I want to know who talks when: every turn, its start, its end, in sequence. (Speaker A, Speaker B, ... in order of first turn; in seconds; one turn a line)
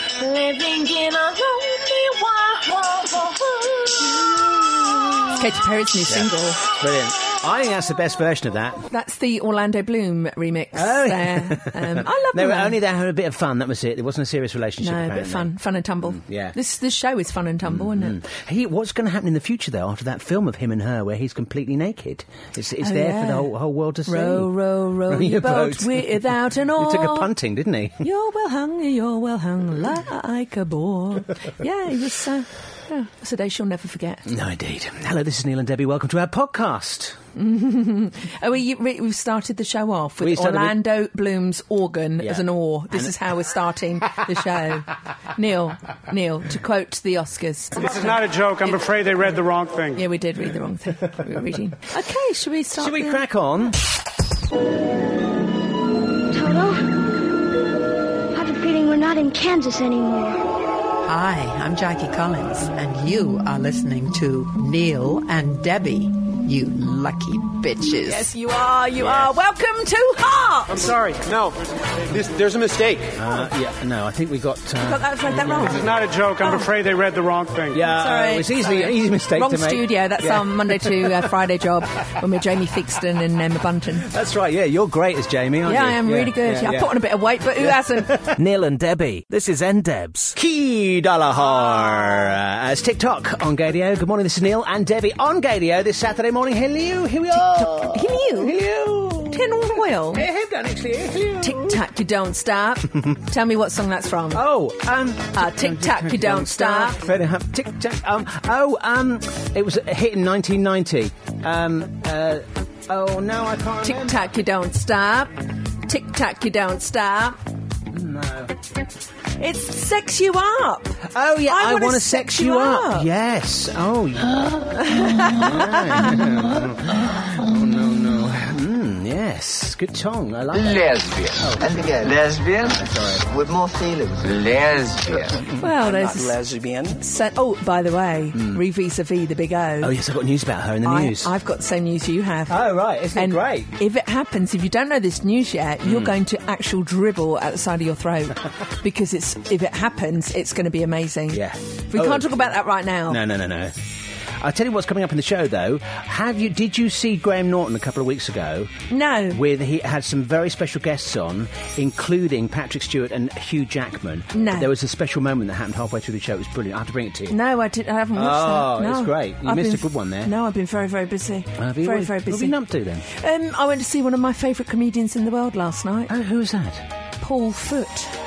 Speaker A: 0.2-5.1
Speaker B: 5.4-6.6
Speaker C: 6.1-8.9
Speaker B: 8.9-12.8
Speaker C: 10.7-15.5
Speaker B: 14.8-18.2
Speaker C: 16.0-16.6
Speaker C: 17.6-24.5
Speaker B: 22.8-23.5
Speaker B: 24.1-27.3
Speaker C: 25.1-28.1
Speaker B: 28.0-34.3
Speaker C: 34.2-37.2
Speaker B: 37.4-48.1
Speaker C: 40.2-40.8
Speaker C: 42.2-43.1
Speaker D: 47.8-50.0
Speaker B: 49.9-53.2
Speaker C: 52.8-53.8
Speaker E: 56.3-56.9
Speaker E: 58.3-60.4
Speaker F: 61.0-68.3
Speaker B: 68.0-70.9
Speaker C: 69.0-69.3
Speaker G: 70.7-73.1
Speaker C: 73.2-76.0
Speaker B: 74.8-76.7
Speaker D: 75.7-77.8
Speaker C: 77.7-81.3
Speaker B: 77.8-84.1
Speaker C: 84.0-87.0
Speaker B: 85.6-88.2
Speaker C: 87.6-101.8
Speaker B: 91.6-92.3
Speaker B: 97.3-98.6
Speaker B: 99.3-100.2
Speaker B: 101.4-104.5
Speaker C: 104.3-114.3
Speaker B: 105.3-107.0
Speaker B: 113.8-117.4
Speaker C: 117.9-118.5
Speaker B: 119.4-123.1
Speaker C: 121.1-130.9
Speaker B: 124.8-126.3
Speaker H: 130.5-135.4
Speaker C: 131.4-131.7
Speaker C: 135.4-135.8
Speaker B: 135.6-136.4
Speaker G: 135.8-136.7
Speaker H: 136.2-136.8
Speaker B: 137.0-139.9
Speaker C: 139.8-141.3
Speaker B: 140.8-153.2
Speaker C: 142.5-143.7
Speaker C: 145.8-146.1
Speaker C: 151.3-153.8
Speaker C: 154.4-158.7
Speaker B: 158.9-159.4
Speaker C: 159.3-167.4
Speaker B: 164.3-164.7
Speaker B: 167.3-172.6
Speaker C: 168.1-170.3
Speaker C: 171.6-173.0
Speaker B: 173.1-176.1
Speaker C: 176.1-176.8
Speaker B: 177.2-178.1